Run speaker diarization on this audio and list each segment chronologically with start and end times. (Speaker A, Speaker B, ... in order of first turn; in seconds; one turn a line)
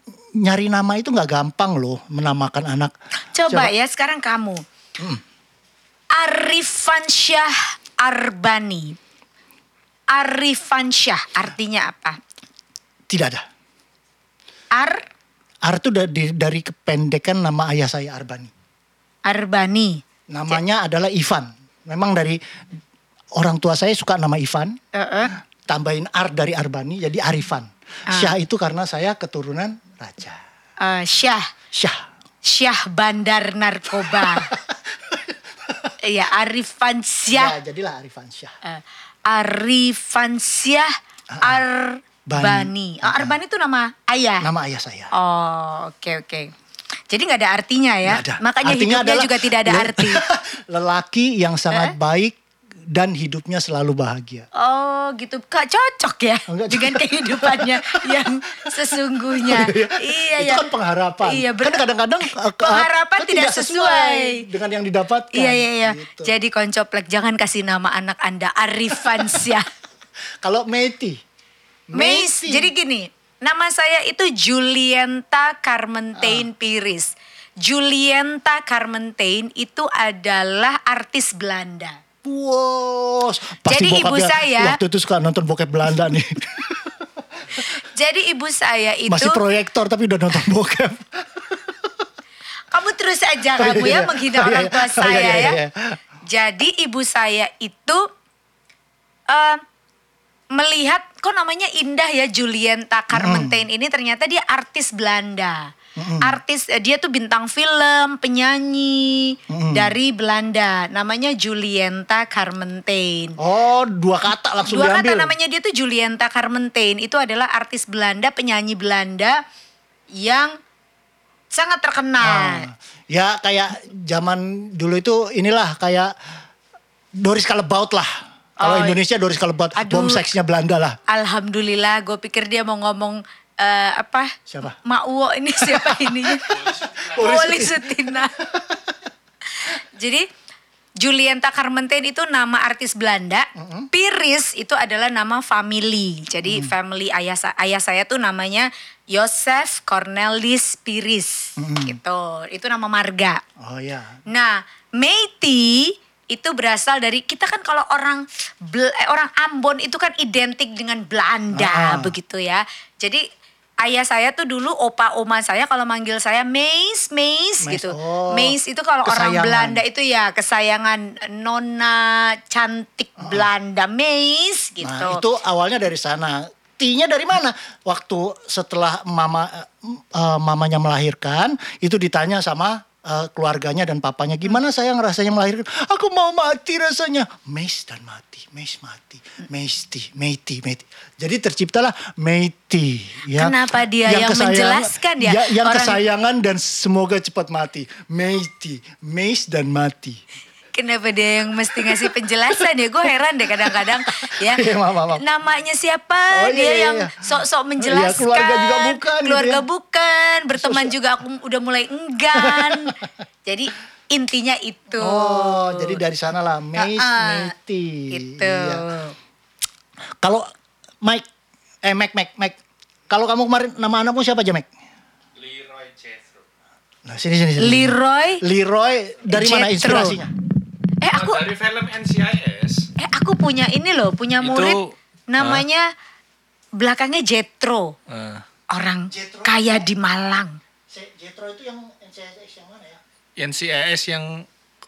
Speaker A: 0.3-2.9
Speaker B: 3.3-4.6
Speaker B: 6.1-9.0
Speaker B: 10.1-12.2
Speaker A: 13.1-13.4
Speaker B: 14.7-15.0
Speaker A: 15.6-18.5
Speaker B: 19.2-20.6
Speaker A: 20.3-22.4
Speaker A: 23.3-24.8
Speaker B: 24.9-25.3
Speaker A: 25.6-30.4
Speaker B: 28.1-28.3
Speaker B: 30.8-31.5
Speaker A: 31.7-32.0
Speaker B: 32.4-34.5
Speaker A: 34.1-35.9
Speaker B: 36.0-37.5
Speaker A: 37.3-38.5
Speaker B: 38.6-44.5
Speaker A: 41.3-41.6
Speaker A: 42.3-43.4
Speaker A: 44.4-45.1
Speaker B: 45.1-46.5
Speaker B: 47.1-50.2
Speaker A: 48.0-52.4
Speaker A: 52.9-54.5
Speaker B: 54.5-60.7
Speaker A: 56.5-66.3
Speaker B: 61.2-61.8
Speaker B: 62.6-64.4
Speaker B: 65.3-69.7
Speaker A: 70.4-71.2
Speaker A: 71.9-72.7
Speaker B: 71.9-82.0
Speaker A: 76.2-76.5
Speaker A: 82.2-87.0
Speaker B: 83.6-84.8
Speaker B: 87.6-89.4
Speaker A: 89.1-91.9
Speaker B: 92.7-95.6
Speaker A: 93.5-96.0
Speaker B: 96.2-98.1
Speaker B: 99.3-99.6
Speaker B: 100.5-105.7
Speaker A: 103.1-103.6
Speaker A: 106.0-106.4
Speaker B: 106.2-113.4
Speaker A: 109.5-109.9
Speaker A: 113.4-115.3
Speaker B: 114.6-119.4
Speaker B: 120.1-120.5
Speaker B: 121.5-122.7
Speaker A: 122.2-126.1
Speaker A: 127.2-131.0
Speaker B: 128.6-129.0
Speaker B: 129.7-130.2
Speaker B: 131.1-138.3
Speaker A: 134.5-134.8
Speaker A: 135.6-138.9
Speaker C: 136.6-137.1
Speaker B: 139.6-140.3
Speaker B: 141.0-153.4
Speaker A: 143.6-143.9
Speaker A: 151.6-152.0
Speaker A: 153.6-154.2
Speaker B: 154.2-163.2
Speaker A: 161.5-162.1
Speaker B: 163.8-175.2
Speaker A: 167.6-169.8
Speaker A: 173.2-173.5
Speaker A: 174.8-200.2
Speaker B: 193.3-196.0
Speaker B: 200.7-204.6
Speaker A: 201.8-202.1
Speaker A: 203.6-205.2
Speaker B: 205.2-216.0
Speaker A: 206.3-207.1
Speaker A: 207.8-209.6
Speaker A: 210.6-210.9
Speaker A: 212.4-212.9
Speaker A: 215.0-218.8
Speaker B: 216.8-217.5
Speaker B: 218.1-219.2
Speaker A: 220.2-220.5
Speaker A: 221.8-222.6
Speaker A: 223.1-224.7
Speaker C: 225.3-226.4
Speaker A: 227.0-230.3
Speaker B: 227.6-228.4
Speaker B: 229.3-230.2
Speaker B: 231.0-231.4
Speaker C: 231.1-232.9
Speaker B: 233.0-235.9
Speaker C: 234.4-235.6
Speaker B: 236.8-237.9
Speaker C: 238.1-238.4
Speaker B: 238.7-240.6
Speaker A: 239.1-239.9
Speaker A: 240.9-243.0
Speaker C: 243.4-244.5